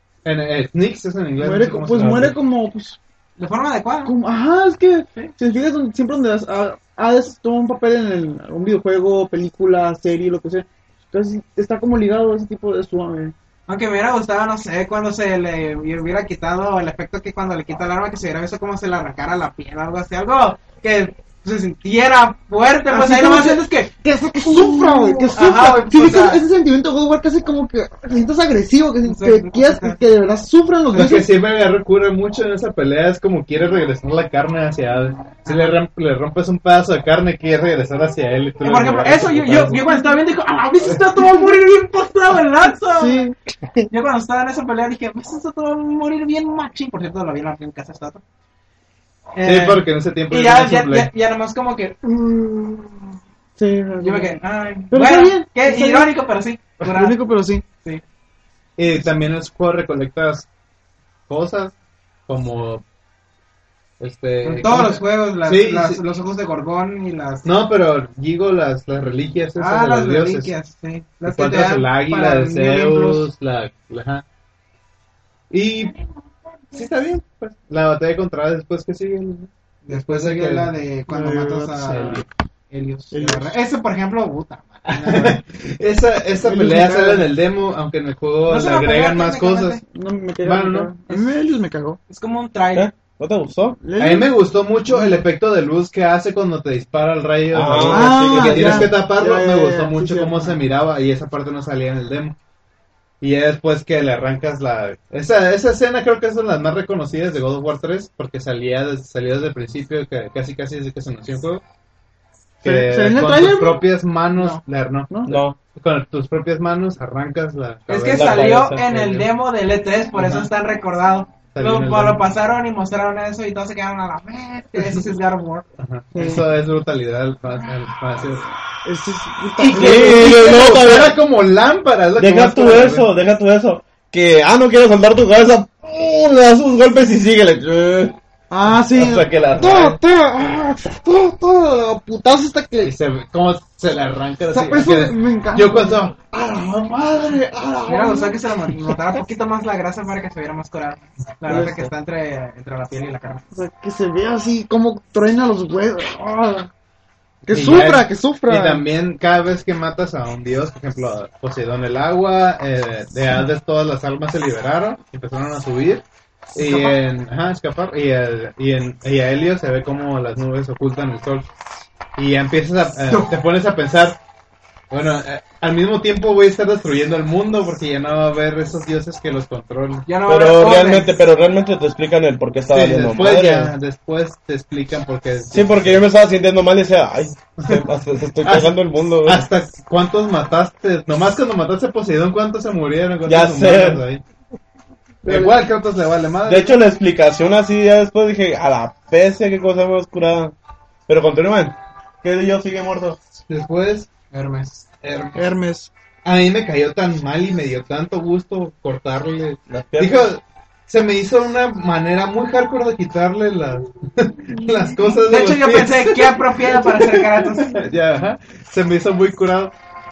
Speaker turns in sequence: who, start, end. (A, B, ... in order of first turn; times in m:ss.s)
0:00.2-0:02.4 A
0:01.4-0:03.0 B
0:02.0-0:02.3 C
0:03.4-0:04.1 D
0:04.0-0:13.3 B
0:13.7-0:26.4 D
0:22.9-0:31.3 B
0:29.0-0:30.0 D
0:30.9-0:39.8 A
0:35.4-0:35.8 D
0:38.6-0:43.3 D
0:43.0-0:43.4 B
0:43.9-0:48.2 D
0:49.4-0:53.1 D
0:49.4-0:51.1 A
0:53.6-0:56.1 B
0:54.0-0:57.2 D
0:56.8-0:57.6 B
0:58.8-1:00.5 A
1:01.3-1:01.8 A
1:02.3-1:02.8 A
1:04.0-1:06.0 A
1:04.4-1:07.5 D
1:07.4-1:10.5 A
1:09.6-1:13.3 D
1:11.2-1:14.2 A
1:15.5-1:16.0 A
1:16.7-1:20.7 A
1:19.8-1:25.4 D
1:21.1-1:22.0 B
1:21.8-1:22.3 A
1:23.1-1:23.5 B
1:24.9-1:29.8 A
1:26.4-1:27.2 B
1:28.5-1:29.8 D
1:29.8-1:32.0 B
1:30.4-1:30.9 A
1:32.1-1:32.9 D
1:32.7-1:33.8 C
1:33.8-1:35.2 B
1:34.0-1:42.4 A
1:37.5-1:38.9 C
1:37.8-1:40.6 B
1:43.2-1:51.6 A
1:52.6-1:55.1 A
1:52.6-1:53.8 B
1:55.1-1:55.4 B
1:55.3-1:55.6 C
1:55.8-1:58.5 A
1:57.9-2:05.7 D
1:58.1-1:59.2 C
2:00.2-2:00.5 A
2:01.5-2:02.2 A
2:04.8-2:05.1 A
2:05.8-2:08.4 A
2:06.2-2:06.4 B
2:08.8-2:10.6 B
2:09.7-2:11.2 C
2:09.7-2:13.1 A
2:12.2-2:18.2 C
2:18.5-2:22.9 B
2:18.7-2:20.0 C
2:22.8-2:27.3 A
2:24.5-2:26.0 B
2:26.7-2:28.8 B
2:27.8-2:33.4 D
2:31.5-2:31.9 B
2:33.5-2:36.7 B
2:37.5-2:38.8 B
2:37.5-2:51.5 A
2:46.6-2:47.0 B
2:52.2-2:54.2 A
2:54.9-3:00.1 A
3:00.1-3:01.1 D
3:00.3-3:03.7 C
3:02.7-3:06.0 A
3:05.5-3:09.5 C
3:07.6-3:07.8 A
3:08.4-3:14.2 A
3:13.3-3:14.0 C
3:15.2-3:15.6 B
3:15.2-3:16.8 A
3:16.5-3:20.5 C
3:21.1-3:23.2 C
3:23.5-3:24.1 A
3:24.3-3:24.8 D
3:25.0-3:25.4 A
3:25.3-3:25.9 B
3:26.2-3:39.7 A
3:29.7-3:30.3 C
3:35.2-3:37.8 D